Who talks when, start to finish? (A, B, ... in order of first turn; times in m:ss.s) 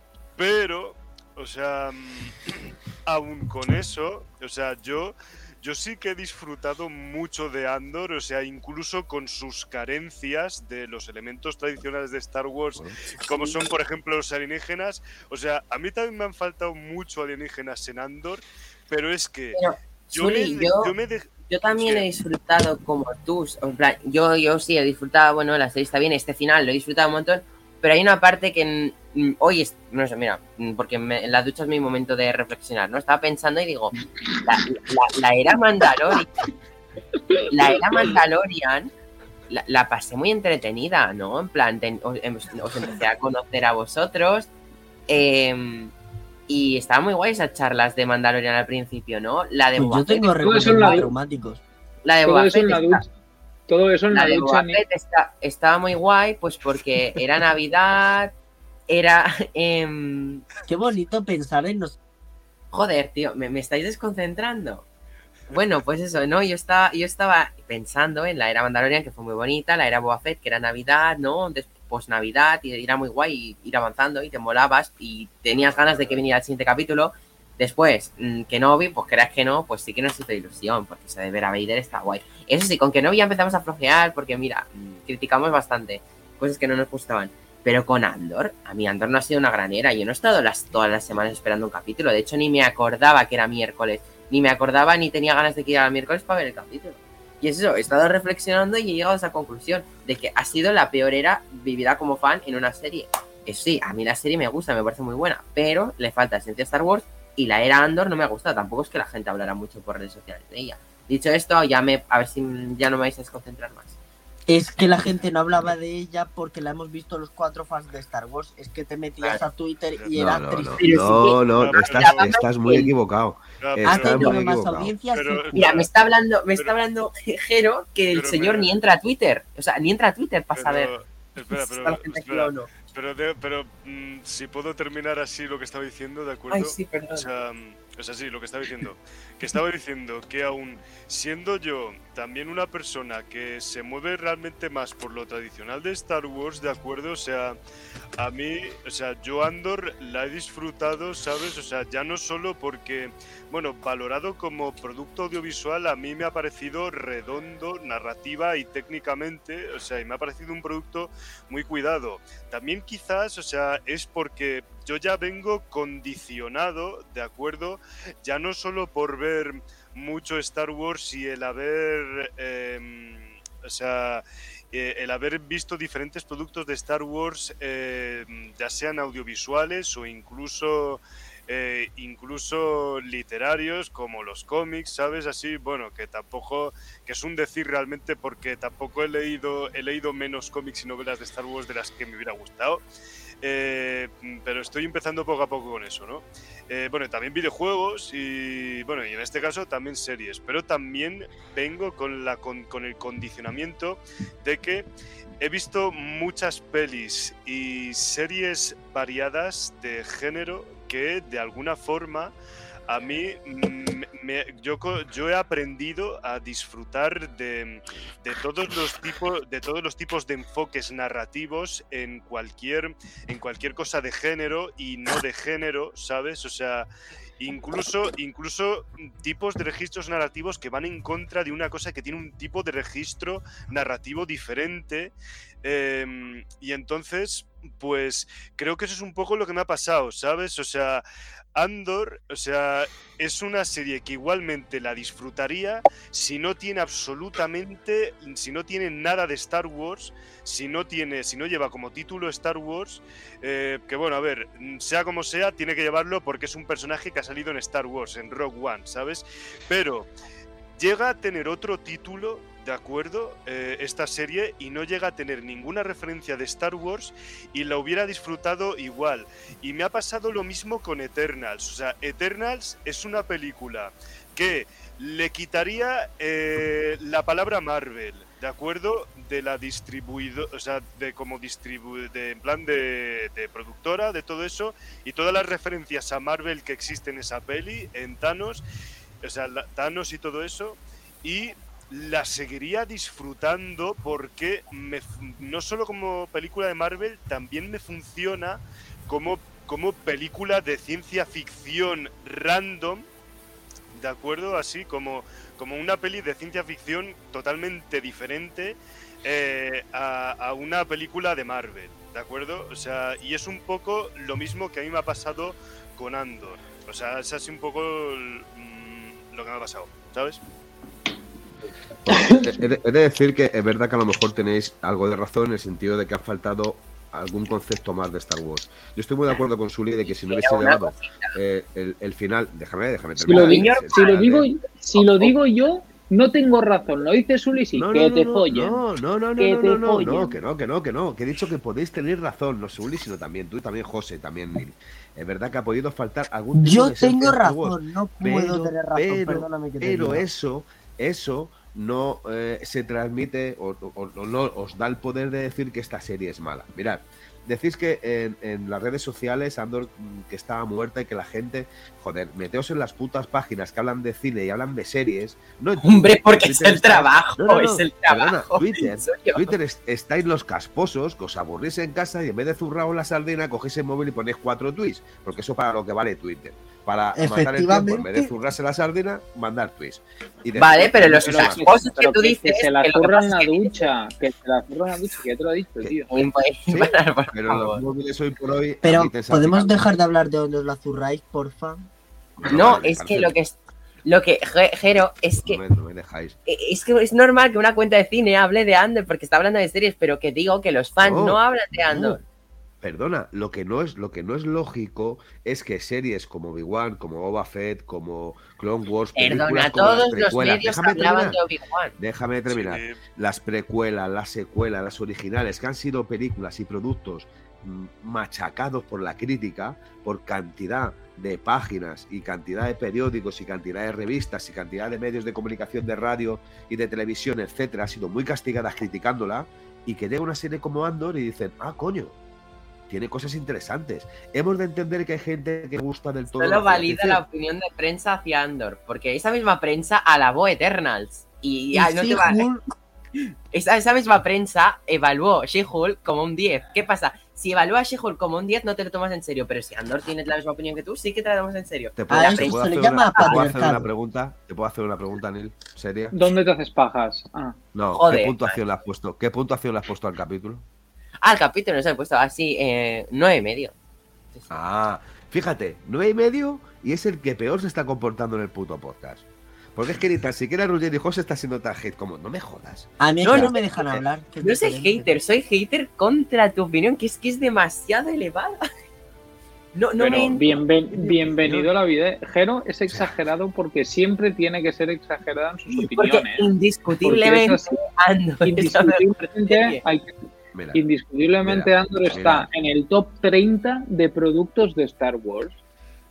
0:00.4-0:22.0 A
0:13.1-0:13.6 B
0:19.5-0:20.9 B
0:21.5-0:36.3 B
0:34.3-0:34.6 C
0:37.1-0:38.1 C
0:37.5-0:38.9 B
0:39.5-0:44.5 B
0:45.1-0:45.9 B
0:46.5-0:51.0 B
0:49.8-0:51.6 D
0:50.4-0:51.1 C
0:52.0-0:53.0 B
0:52.2-0:53.1 C
0:53.7-0:54.8 C
0:54.1-0:58.3 B
0:58.9-1:00.4 B
1:00.7-1:02.0 D
1:02.7-1:04.8 B
1:05.5-1:54.0 B
1:54.5-2:01.2 D
2:00.0-2:00.2 A
2:00.2-2:04.9 E
2:00.8-2:02.9 B
2:01.6-2:02.3 A
2:03.6-2:04.4 A
2:03.8-2:05.9 D
2:05.1-2:05.9 A
2:05.5-2:10.9 B
2:08.1-2:08.7 A
2:10.6-2:27.6 A
2:11.5-2:12.7 B
2:16.5-2:17.3 B
2:28.2-3:12.8 A
3:13.4-3:24.9 A
3:25.4-3:32.3 A
3:32.9-3:46.9 A
3:47.4-4:01.0 A
4:01.6-4:20.1 A
4:20.8-4:48.6 A
4:49.2-5:03.1 A
5:03.9-5:20.4 A
5:22.0-5:34.5 E
5:22.1-5:22.5 C
5:30.0-5:31.4 B
5:33.2-5:38.8 C
5:33.3-5:34.2 B
5:34.9-5:35.4 B
5:37.7-6:21.9 E
5:39.4-5:40.4 C
5:46.6-5:50.3 D
6:05.8-6:09.6 B
6:17.2-6:18.3 D
6:20.6-6:23.9 B
6:21.1-6:26.1 C
6:25.8-6:29.9 E
6:26.1-6:27.8 B
6:28.8-6:31.9 D
6:32.4-6:33.4 E
6:32.5-6:35.6 B
6:35.4-6:36.4 E
6:36.5-6:42.2 B
6:41.0-6:42.2 E
6:42.8-6:51.4 E
6:49.2-6:52.0 B
6:52.0-7:12.2 E
6:52.5-6:53.0 A
7:12.9-7:17.2 E
7:16.3-7:22.5 B
7:21.7-7:22.6 D
7:23.2-7:33.5 B
7:32.0-7:36.2 E
7:32.1-7:33.9 D
7:36.1-7:37.6 C
7:37.7-7:40.6 E
7:37.9-7:38.6 B
7:41.2-7:43.7 B
7:44.5-7:54.0 E
7:53.0-7:55.1 D
7:53.2-7:53.6 B
7:54.4-7:58.6 B
7:59.7-8:00.6 B
8:00.0-8:06.5 C
8:00.9-8:01.7 E
8:05.7-8:09.8 B
8:07.0-8:07.8 C
8:08.4-8:10.1 C
8:10.5-8:10.8 E
8:10.7-8:15.6 C
8:11.4-8:12.5 E